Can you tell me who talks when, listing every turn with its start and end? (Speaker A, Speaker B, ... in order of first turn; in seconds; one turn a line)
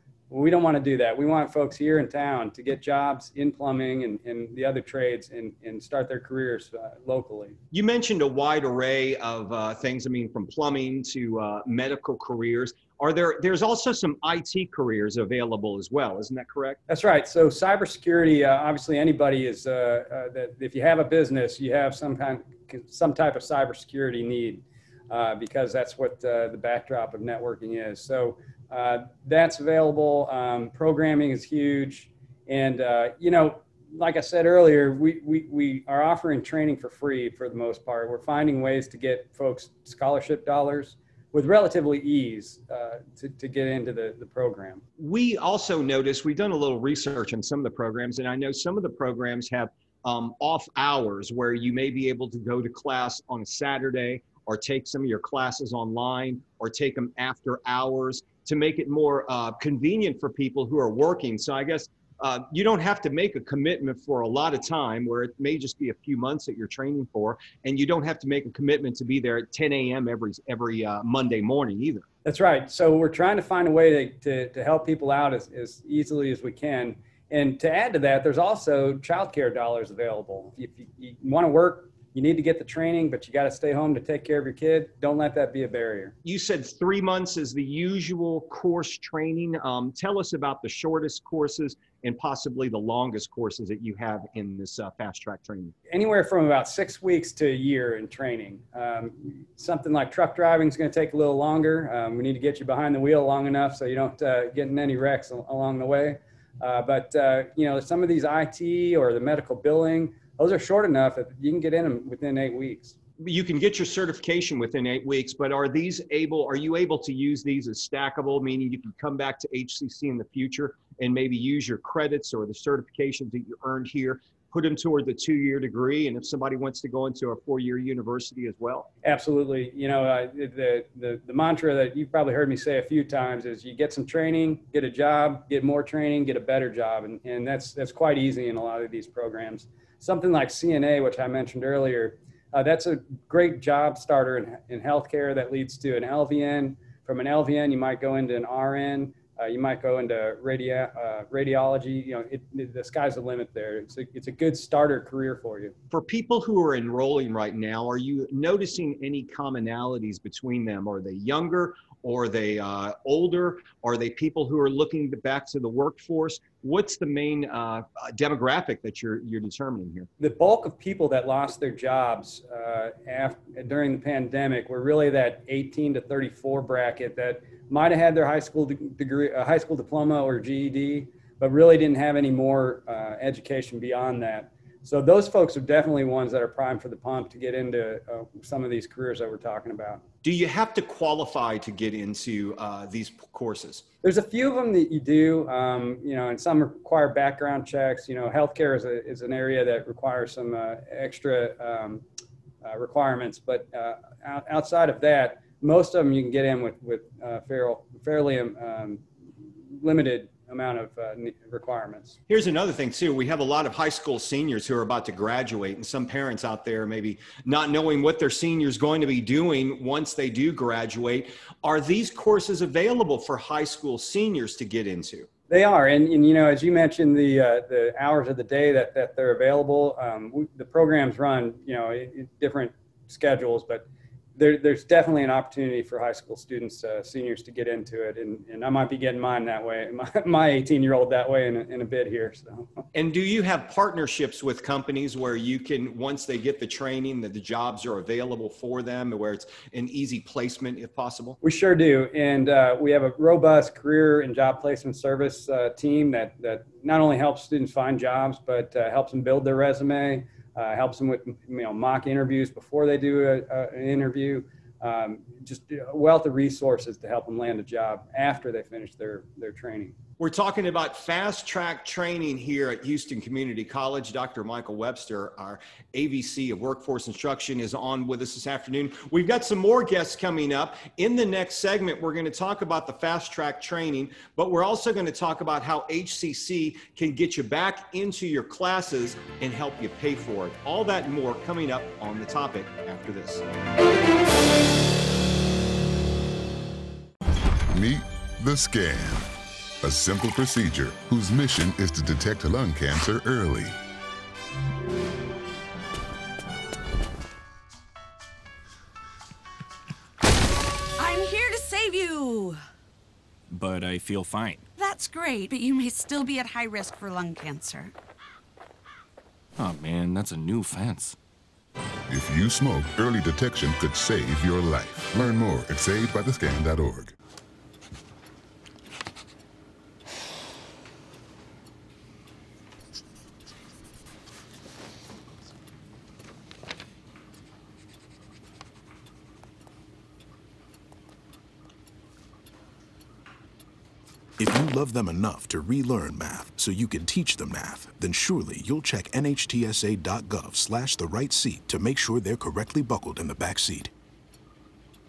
Speaker A: 0.3-7.6
Speaker B: 7.7-16.8
Speaker A: 16.9-44.8
Speaker B: 45.0-72.1
Speaker A: 72.2-86.2
Speaker B: 86.2-95.8
Speaker A: 95.9-112.9
Speaker B: 113.2-128.9
Speaker A: 129.0-155.8
Speaker B: 155.9-170.1
Speaker A: 170.2-190.0
Speaker B: 190.2-193.8
Speaker A: 194.0-202.0
Speaker A: 202.6-209.0
Speaker A: 209.7-212.2
Speaker B: 212.3-225.3
Speaker A: 225.5-242.8
Speaker B: 242.9-251.4
Speaker A: 251.4-270.0
Speaker B: 270.2-293.4
Speaker C: 297.7-299.2
Speaker C: 299.8-303.7
Speaker D: 311.0-312.6
Speaker E: 313.5-314.7
Speaker D: 314.8-317.9
Speaker E: 319.6-321.1
Speaker C: 322.1-327.1
Speaker F: 344.4-353.9